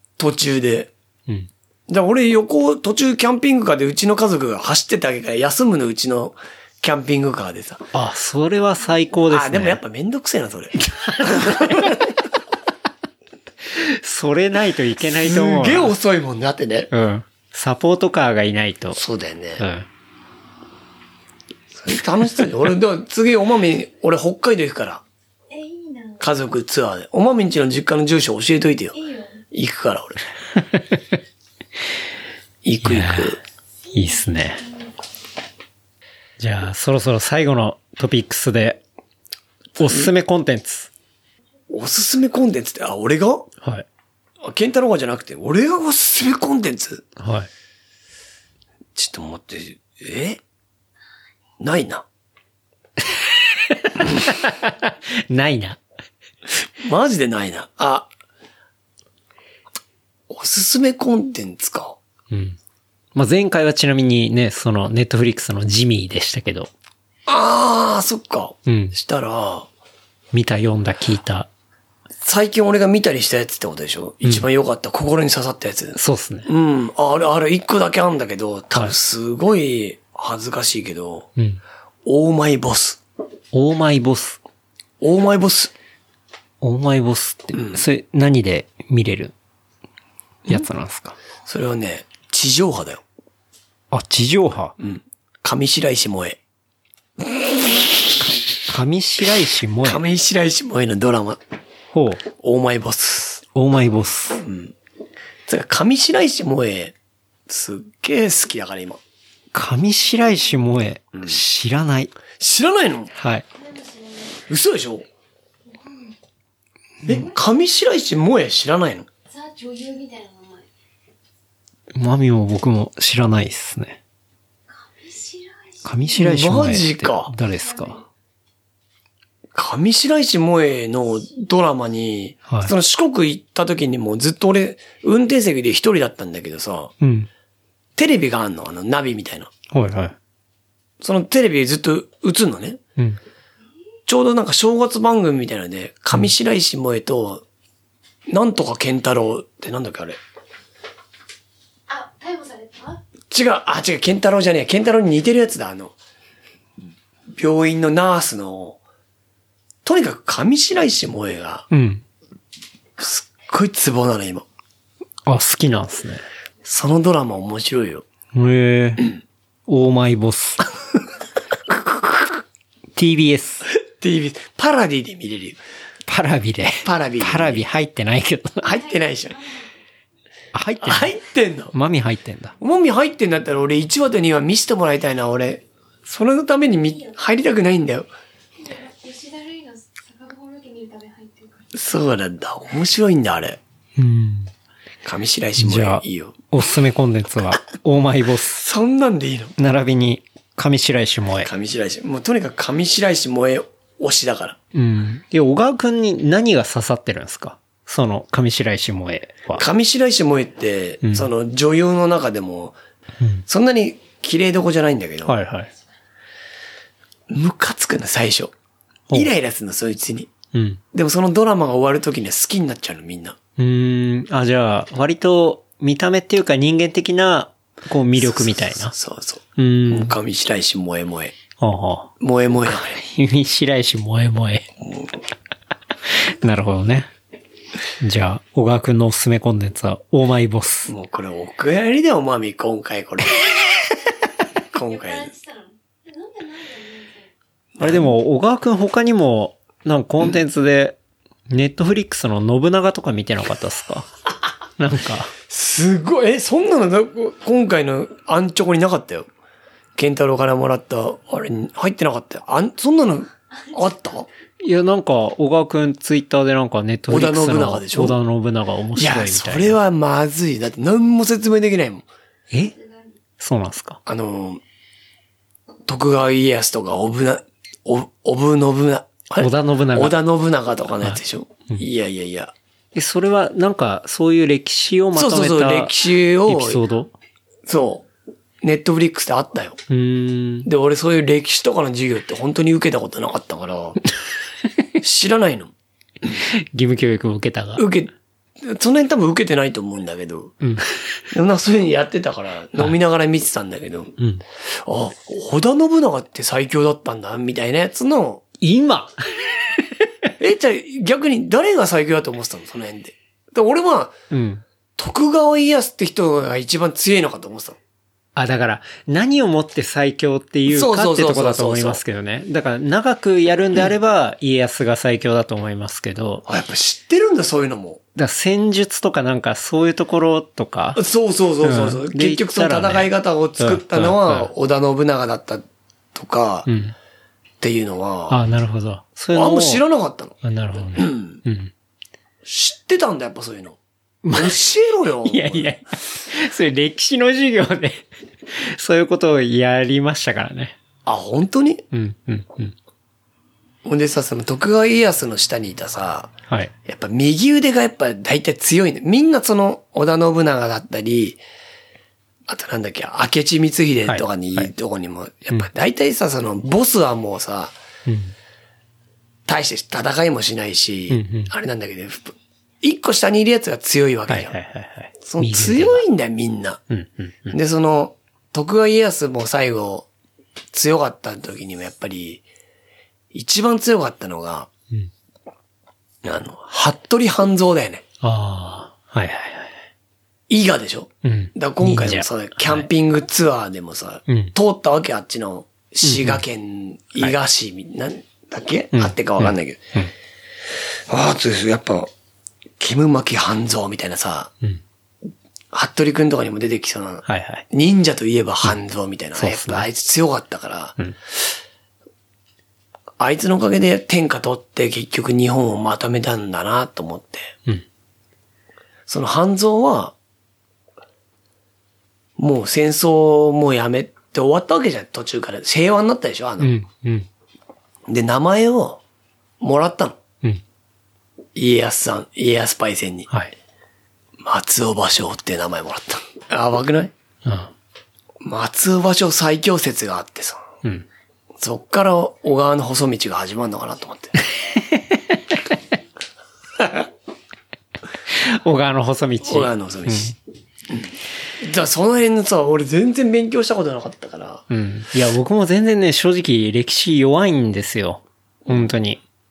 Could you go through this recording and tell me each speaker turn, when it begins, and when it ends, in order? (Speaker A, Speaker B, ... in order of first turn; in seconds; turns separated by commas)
Speaker A: 0.2-0.9, Speaker A: 1.9-7.9, Speaker B: 7.9-9.8, Speaker A: 9.3-12.0, Speaker B: 11.3-11.9, Speaker B: 13.8-15.9, Speaker A: 15.2-16.9, Speaker B: 16.9-19.0, Speaker A: 18.9-19.6, Speaker B: 19.6-19.9, Speaker A: 21.7-25.0, Speaker C: 25.5-26.3, Speaker A: 26.2-29.0, Speaker C: 28.9-29.4, Speaker A: 29.5-30.2, Speaker A: 32.6-33.4, Speaker B: 32.8-33.4, Speaker B: 33.9-34.6, Speaker B: 36.4-38.8, Speaker B: 39.8-40.9, Speaker A: 39.8-40.1, Speaker A: 41.7-43.5, Speaker A: 44.4-47.1, Speaker B: 47.2-47.5, Speaker A: 49.0-50.4, Speaker A: 51.6-52.1, Speaker B: 53.7-55.8, Speaker A: 56.8-58.1, Speaker A: 60.3-62.0, Speaker B: 62.3-62.6, Speaker B: 63.1-66.7, Speaker A: 67.3-69.7, Speaker B: 68.7-69.0, Speaker B: 70.3-71.5, Speaker A: 72.2-81.3, Speaker B: 76.0-76.5, Speaker A: 82.0-83.0, Speaker B: 83.5-84.4, Speaker A: 85.0-85.7, Speaker B: 86.6-89.3, Speaker A: 87.5-87.8, Speaker B: 90.5-91.2, Speaker A: 91.5-93.0, Speaker B: 93.9-94.8, Speaker A: 94.8-96.4, Speaker A: 97.2-97.9, Speaker B: 98.7-100.0, Speaker A: 99.8-101.4, Speaker B: 101.9-102.2, Speaker A: 102.3-103.5, Speaker B: 103.5-104.4, Speaker A: 104.4-104.7, Speaker A: 105.5-107.0, Speaker A: 107.5-109.0, Speaker B: 109.5-112.1, Speaker A: 112.4-113.1, Speaker B: 113.2-113.5, Speaker C: 113.5-114.5, Speaker A: 114.5-115.1, Speaker C: 115.7-116.2, Speaker A: 117.1-119.1, Speaker C: 119.3-120.7, Speaker B: 122.0-124.0, Speaker C: 124.7-126.2, Speaker B: 125.8-128.0, Speaker A: 126.2-127.3, Speaker C: 127.5-128.1, Speaker A: 129.5-136.9, Speaker B: 132.5-132.7, Speaker B: 137.0-137.3, Speaker A: 138.0-139.5, Speaker B: 139.7-140.2, Speaker A: 141.0-142.8, Speaker A: 144.1-147.4, Speaker A: 148.3-150.2, Speaker C: 151.9-153.0, Speaker A: 153.3-155.9, Speaker A: 157.3-158.8, Speaker A: 159.8-161.7, Speaker B: 161.7-162.0, Speaker A: 163.0-164.5, Speaker B: 165.3-166.2, Speaker A: 166.6-168.1, Speaker B: 168.3-169.1, Speaker B: 169.7-170.6, Speaker B: 173.0-173.7, Speaker A: 173.9-175.6, Speaker B: 176.1-178.7, Speaker A: 176.8-177.6, Speaker A: 178.6-179.4, Speaker C: 178.7-179.7, Speaker B: 180.5-181.1, Speaker A: 180.8-181.7, Speaker B: 181.7-182.6, Speaker A: 182.6-188.1, Speaker C: 188.6-191.8, Speaker A: 191.7-193.6, Speaker B: 194.0-194.5, Speaker A: 195.1-196.4, Speaker B: 195.6-198.6, Speaker A: 198.6-199.6, Speaker B: 199.6-201.5, Speaker A: 201.4-204.6, Speaker B: 204.7-209.7, Speaker A: 209.6-212.8, Speaker B: 211.0-211.3, Speaker A: 213.5-215.4, Speaker B: 215.2-215.7, Speaker A: 217.3-218.5, Speaker A: 219.1-220.3, Speaker B: 220.5-220.8, Speaker A: 220.9-223.4, Speaker B: 223.6-228.9, Speaker A: 228.2-231.4, Speaker B: 229.6-230.1, Speaker B: 231.6-232.1, Speaker A: 232.2-233.0, Speaker B: 232.9-234.7, Speaker A: 234.8-235.1, Speaker B: 236.3-237.1, Speaker B: 238.0-240.9, Speaker A: 240.9-243.6, Speaker A: 244.7-245.3, Speaker C: 244.7-247.3, Speaker A: 247.8-248.1, Speaker B: 247.8-251.0, Speaker B: 251.5-254.1, Speaker B: 254.8-255.3, Speaker A: 255.5-259.3, Speaker A: 260.0-264.3, Speaker B: 264.6-269.8, Speaker A: 267.1-268.2, Speaker A: 269.0-272.1, Speaker C: 272.8-273.2, Speaker B: 273.4-274.0, Speaker A: 274.1-274.6, Speaker A: 275.9-282.5, Speaker B: 279.4-280.2, Speaker B: 281.0-281.9, Speaker B: 282.9-285.9, Speaker A: 285.1-286.8, Speaker B: 286.5-287.1, Speaker A: 287.7-288.1, Speaker A: 288.6-289.8, Speaker B: 289.9-290.7, Speaker A: 290.6-294.0, Speaker A: 295.0-295.7, Speaker B: 296.3-297.9, Speaker A: 297.8-300.6, Speaker B: 300.6-300.9, Speaker A: 301.3-304.2, Speaker A: 304.8-308.4, Speaker B: 308.6-309.2, Speaker A: 310.4-314.1, Speaker B: 314.3-314.6, Speaker A: 315.0-317.8, Speaker B: 318.4-326.4, Speaker A: 320.7-322.0, Speaker A: 326.5-328.0, Speaker B: 328.2-331.0, Speaker A: 330.9-336.7, Speaker B: 331.6-334.5, Speaker B: 336.7-336.9, Speaker A: 337.6-338.4, Speaker B: 338.3-339.8, Speaker A: 339.3-340.4, Speaker B: 340.4-341.7, Speaker A: 340.9-341.4, Speaker A: 342.4-343.8, Speaker B: 344.2-344.6, Speaker A: 344.3-345.8, Speaker B: 345.3-350.8, Speaker A: 351.1-351.9, Speaker B: 351.9-352.8, Speaker A: 353.9-356.3, Speaker A: 356.9-361.4, Speaker A: 362.5-367.7, Speaker B: 364.1-364.7, Speaker B: 368.1-368.3, Speaker A: 369.5-374.5, Speaker B: 371.1-371.5, Speaker B: 374.3-376.0, Speaker A: 375.2-376.8, Speaker B: 376.9-377.6, Speaker A: 377.5-380.1, Speaker A: 380.7-382.4, Speaker A: 383.3-384.7, Speaker A: 386.2-388.0, Speaker B: 388.2-389.8, Speaker A: 390.5-399.8, Speaker B: 391.2-392.9, Speaker B: 394.3-394.5, Speaker B: 396.0-396.4, Speaker B: 398.9-400.1, Speaker A: 401.1-402.1, Speaker A: 402.8-404.5, Speaker A: 405.7-411.0, Speaker B: 407.3-407.6, Speaker B: 409.4-409.9, Speaker A: 413.2-417.5, Speaker A: 419.1-420.1, Speaker A: 422.4-426.8, Speaker B: 426.6-427.3, Speaker A: 428.1-429.0, Speaker A: 429.6-430.2, Speaker A: 431.6-433.3, Speaker A: 434.4-437.1, Speaker B: 437.5-437.7, Speaker A: 438.4-440.6, Speaker A: 441.6-444.4, Speaker B: 448.3-450.4, Speaker A: 449.4-450.4, Speaker A: 450.9-454.6, Speaker B: 454.7-459.2, Speaker A: 458.7-458.9